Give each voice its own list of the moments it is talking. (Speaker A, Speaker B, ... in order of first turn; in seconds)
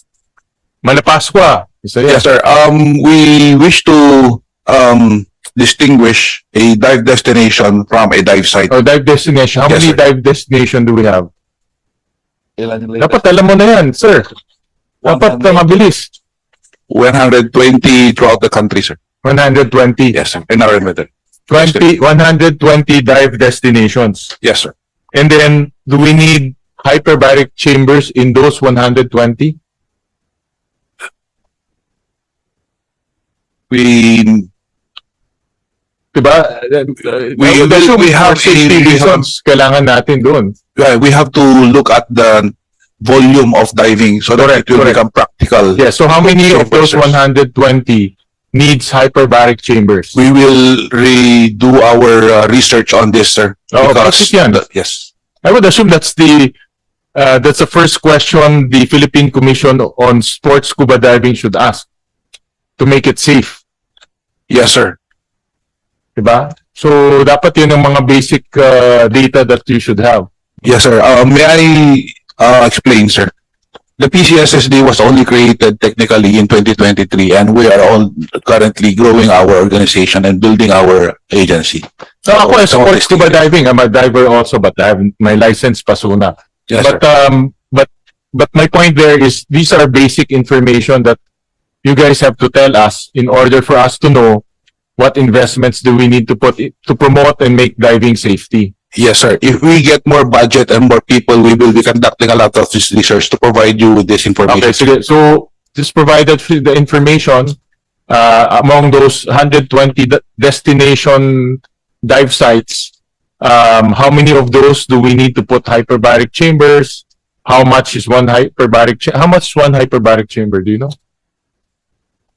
Speaker A: 0.8-2.2, 8.7-11.3, 13.0-14.3, 15.0-16.1, 19.2-20.2, 21.5-24.4, 25.1-29.6, 36.1-40.5, 44.4-45.0, 45.7-50.1, 53.7-54.6, 55.4-56.5, 57.1-61.9, 62.8-63.6, 66.2-70.3, 82.2-91.2, 91.8-94.4, 95.0-98.7, 104.5-107.5, 108.1-120.9
Speaker B: 2.1-8.7, 9.7-10.0, 12.6-13.1, 15.0-15.6, 16.9-19.0, 20.1-21.8, 24.4-24.7, 33.7-34.5, 37.4-39.3, 40.8-47.2, 50.1-55.1, 64.5-65.0, 70.6-73.3, 74.0-83.4, 86.7-87.0, 98.9-104.8